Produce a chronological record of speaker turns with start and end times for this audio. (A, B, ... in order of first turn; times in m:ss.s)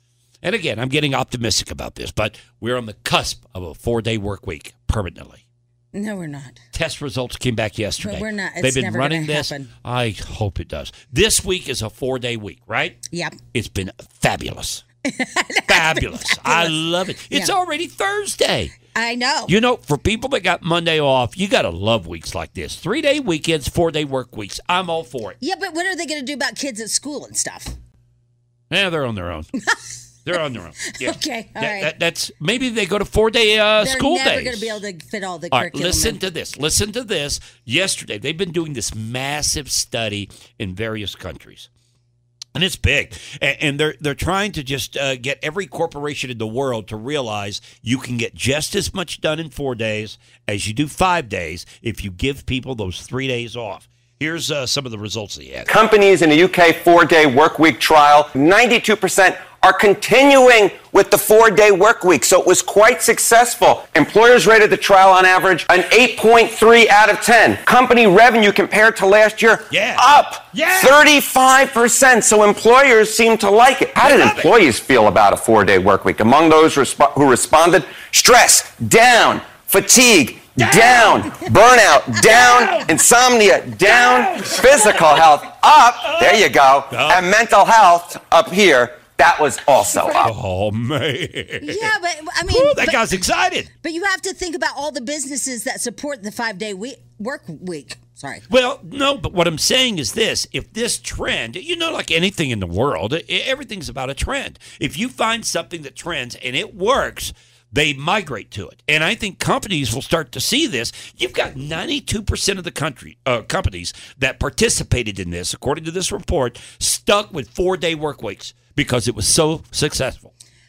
0:00.4-0:05.4 A
0:05.9-0:06.6 B
0:06.7-0:13.0 A
0:08.0-0:09.7 B
0:13.1-0:13.4 B
0:13.5-0:14.8 A
0:15.1-0:17.6 B
0:15.7-0:18.8 A
0:18.9-0:19.5 B
0:19.5-0:25.4 A
0:25.4-0:27.7 B
0:28.7-0:29.5 A
0:30.2-0:34.8 A
0:30.9-0:31.9 B
0:33.8-0:36.2 B
0:35.5-0:41.7 A
0:42.6-0:55.7 A
0:55.7-1:30.3 C
1:09.7-1:11.0 A
1:14.0-1:14.5 A
1:20.6-1:21.3 A
1:22.3-1:22.9 A
1:23.9-1:25.0 A
1:26.2-1:27.3 A
1:30.2-1:31.9 A
1:31.6-1:33.1 B
1:32.5-1:33.7 A
1:33.8-1:38.4 B
1:38.5-2:00.3 A